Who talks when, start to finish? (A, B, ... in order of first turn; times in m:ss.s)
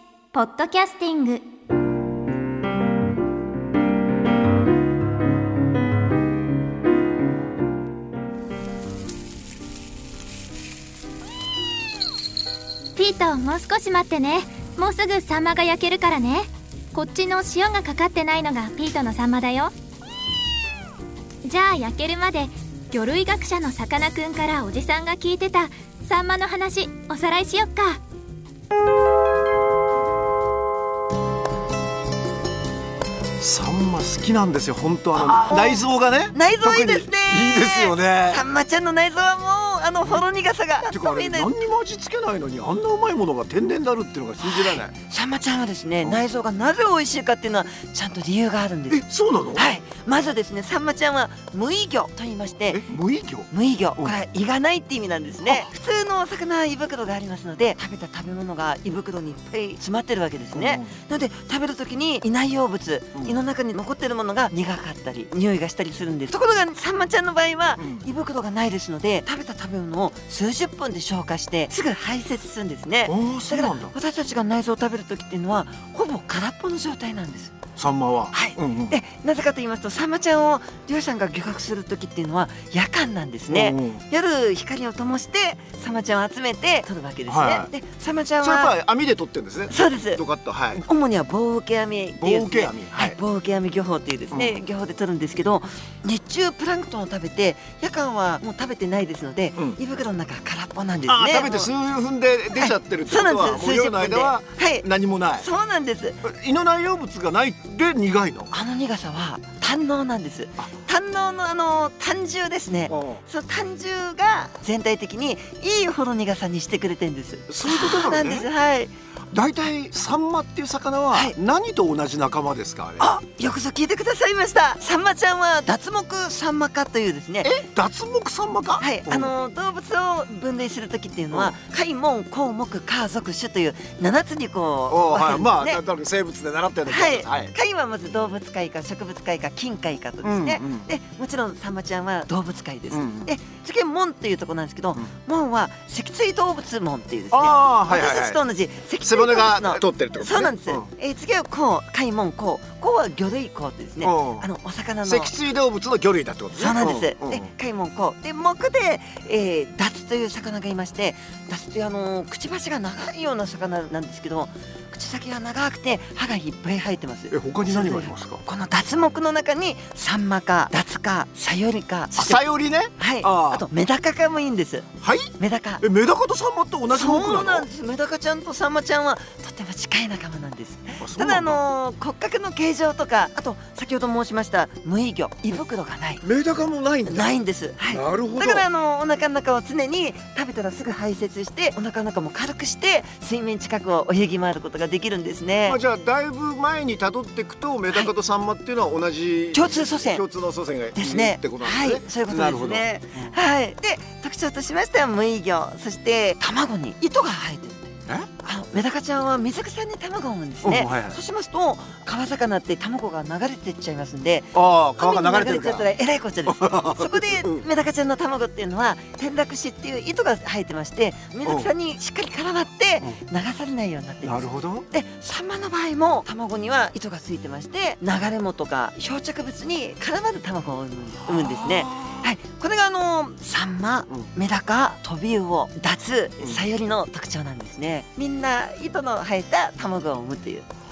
0:00.3-0:01.4 A
0:13.0-0:19.7 A
0:21.4-0:28.0 A
0:33.4-0:38.4 B
0:35.2-0:35.8 C
0:36.3-0:41.5 C
0:40.8-0:44.9 B
0:44.4-0:49.0 C
0:48.9-0:49.7 B
0:49.5-0:52.8 C
0:52.7-0:54.1 B
0:53.5-1:17.5 C
0:55.4-0:55.7 B
1:00.5-1:01.0 B
1:07.8-1:08.0 B
1:13.0-1:13.9 B
1:17.8-1:19.0 B
1:18.3-1:28.7 C
1:23.5-1:24.0 B
1:27.3-1:27.7 B
1:28.4-1:30.8 B
1:29.7-1:30.2 C
1:30.7-1:41.7 C
1:32.2-1:33.2 B
1:34.3-1:34.6 B
1:41.0-1:45.5 B
1:42.6-1:44.8 C
1:45.4-1:46.2 C
1:46.2-1:48.5 B
1:48.5-1:58.9 C
1:52.9-1:53.2 B
1:57.5-1:58.5 B
1:59.3-2:03.1 B
2:03.0-2:07.5 C
2:07.4-2:09.3 B
2:08.8-2:15.8 C
2:11.3-2:11.6 B
2:14.9-2:17.5 B
2:16.9-2:35.3 C
2:20.2-2:20.9 B
2:22.9-2:23.3 B
2:27.3-2:28.4 B
2:29.0-2:30.9 B
2:34.0-2:34.5 B
2:35.0-2:37.5 B
2:36.6-2:52.4 C
2:47.3-2:48.4 B
2:52.2-2:53.6 B
2:53.0-2:55.8 C
2:55.0-2:57.7 B
2:56.9-3:06.2 C
3:01.0-3:01.6 B
3:06.2-3:07.3 B
3:07.1-3:15.8 C
3:07.9-3:08.6 B
3:15.6-3:23.4 B
3:19.5-3:20.2 C
3:21.0-4:00.6 C
3:30.6-3:31.2 B
3:34.5-3:35.9 B
3:36.4-3:37.6 B
3:41.4-3:41.7 B
3:44.2-3:44.9 B
3:51.2-3:52.3 B